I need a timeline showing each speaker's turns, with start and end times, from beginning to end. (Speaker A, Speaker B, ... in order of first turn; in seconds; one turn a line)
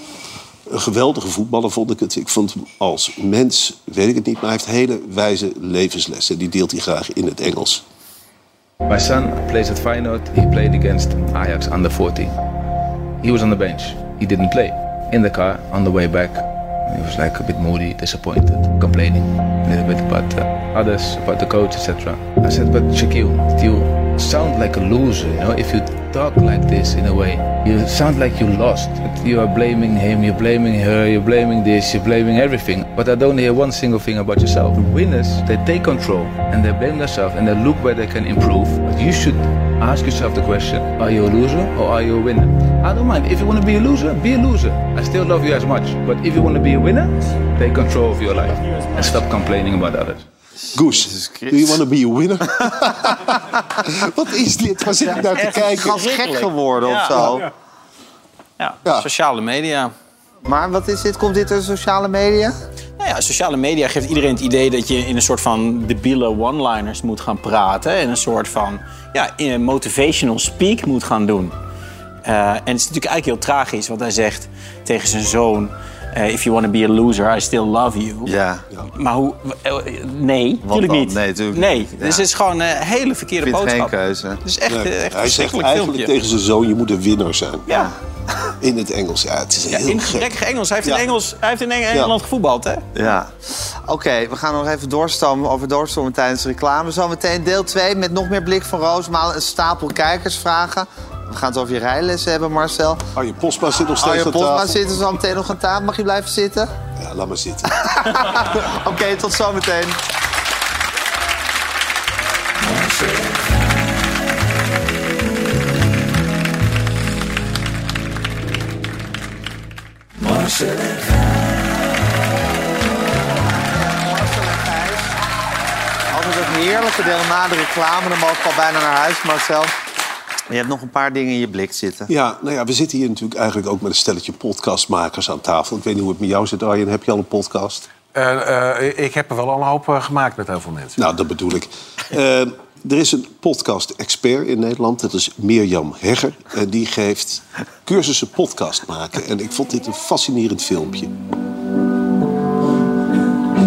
Speaker A: 0.7-7.8
Speaker B: 8.9-12.4
Speaker B: 13.2-50.2
Speaker C: 48.6-49.1
Speaker A: 50.7-56.0
Speaker D: 50.8-51.8
Speaker D: 55.1-57.5
Speaker C: 55.3-57.4
Speaker C: 58.6-59.9
Speaker D: 60.5-62.5
Speaker C: 63.0-71.5
Speaker C: 72.2-78.3
Speaker D: 78.3-78.7
Speaker C: 79.0-86.1
Speaker D: 80.6-82.2
Speaker D: 83.4-84.4
Speaker A: 84.7-87.8
Speaker A: 88.6-90.3
Speaker C: 89.7-92.9
Speaker D: 93.0-103.0
Speaker A: 103.2-104.9
Speaker D: 104.0-106.7
Speaker A: 107.0-107.7
Speaker D: 107.7-110.0
Speaker D: 123.5-125.2
Speaker D: 126.1-129.8
Speaker D: 130.5-132.1
Speaker A: 132.1-137.9
Speaker E: 138.1-141.0
Speaker A: 141.0-151.1